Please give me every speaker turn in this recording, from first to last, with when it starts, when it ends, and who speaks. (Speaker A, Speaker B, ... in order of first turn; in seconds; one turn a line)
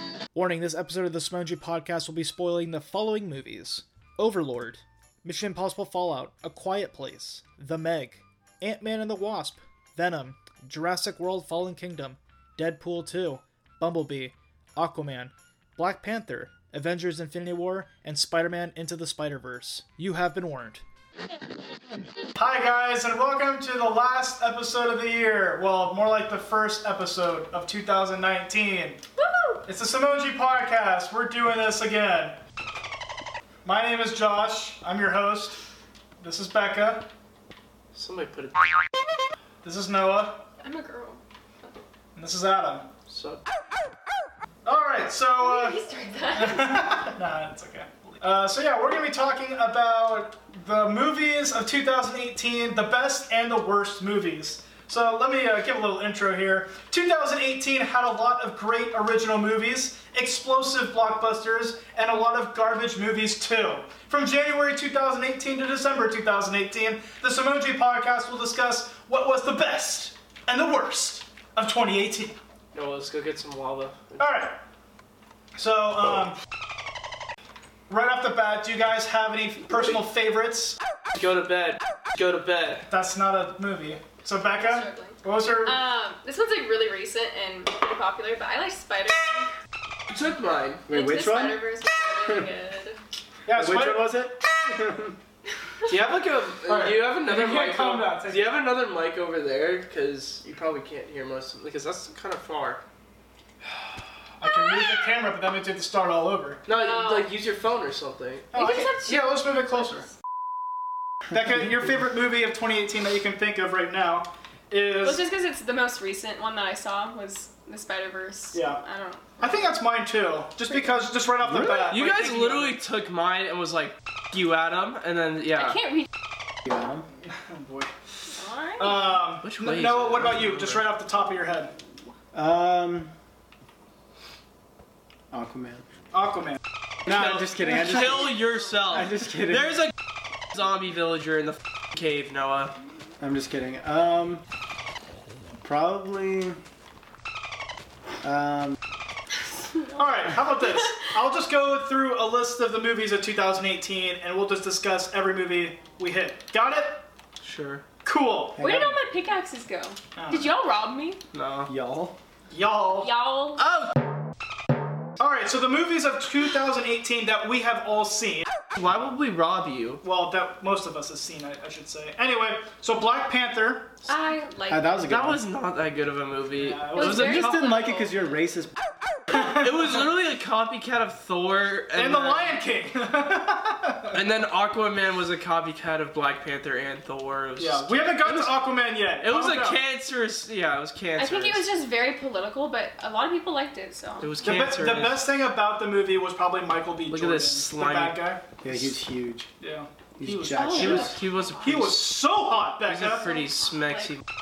Speaker A: 0.3-20.8
Speaker A: 22.3-29.0
Speaker B: 29.1-29.7
Speaker A: 29.6-32.4
Speaker A: 33.6-35.6
Speaker A: 36.2-37.1
Speaker C: 37.9-38.8
Speaker A: 39.6-40.5
Speaker B: 40.6-41.2
Speaker A: 42.1-42.9
Speaker C: 43.1-43.4
Speaker A: 44.6-45.8
Speaker B: 45.4-47.0
Speaker A: 46.3-72.4
Speaker C: 72.7-74.2
Speaker A: 74.2-74.6
Speaker A: 75.5-76.3
Speaker A: 77.9-80.8
Speaker C: 81.1-82.9
Speaker A: 82.9-85.8
Speaker B: 84.6-89.5
Speaker C: 90.1-90.8
Speaker D: 90.9-91.7
Speaker B: 90.9-93.0
Speaker A: 93.5-94.4
Speaker D: 93.5-95.1
Speaker C: 95.9-102.8
Speaker A: 96.6-98.5
Speaker A: 104.4-106.6
Speaker B: 104.4-104.9
Speaker C: 106.7-108.5
Speaker B: 106.7-107.3
Speaker A: 108.5-110.1
Speaker B: 108.5-109.3
Speaker A: 111.3-115.2
Speaker B: 115.0-119.4
Speaker A: 118.5-118.8
Speaker A: 119.4-122.8
Speaker B: 120.7-121.0
Speaker D: 121.4-121.9
Speaker C: 121.7-125.8
Speaker B: 125.7-126.1
Speaker D: 126.7-127.0
Speaker A: 127.3-127.9
Speaker B: 128.3-129.1
Speaker A: 128.8-131.7
Speaker C: 129.4-130.9
Speaker D: 132.3-133.1
Speaker D: 135.3-135.8
Speaker A: 136.1-137.4
Speaker D: 137.1-139.8
Speaker C: 137.1-139.9
Speaker C: 140.5-142.8
Speaker D: 143.2-144.4
Speaker D: 145.6-146.6
Speaker D: 148.2-148.8
Speaker A: 149.9-157.0
Speaker C: 157.4-157.8
Speaker A: 158.0-158.9
Speaker D: 158.6-158.9
Speaker B: 158.6-161.2
Speaker A: 160.2-160.5
Speaker C: 161.3-161.7
Speaker D: 161.7-162.2
Speaker A: 162.5-163.1
Speaker B: 163.0-163.6
Speaker C: 163.6-163.9
Speaker A: 165.2-168.5
Speaker C: 168.7-170.0
Speaker A: 170.0-174.1
Speaker B: 174.1-175.1
Speaker D: 174.7-175.4
Speaker C: 175.1-177.6
Speaker A: 176.6-177.9
Speaker B: 176.9-178.3
Speaker D: 177.1-178.7
Speaker A: 179.3-180.0
Speaker C: 179.3-182.6
Speaker A: 181.9-184.2
Speaker C: 184.1-188.6
Speaker A: 187.6-189.8
Speaker C: 189.2-191.6
Speaker B: 191.2-194.7
Speaker C: 194.2-195.2
Speaker A: 194.4-198.4
Speaker C: 197.1-198.2
Speaker D: 198.6-199.5
Speaker A: 199.6-201.1
Speaker D: 200.2-201.1
Speaker B: 200.5-201.8
Speaker C: 200.8-202.1
Speaker A: 201.6-203.3
Speaker C: 202.9-204.2
Speaker B: 203.2-204.1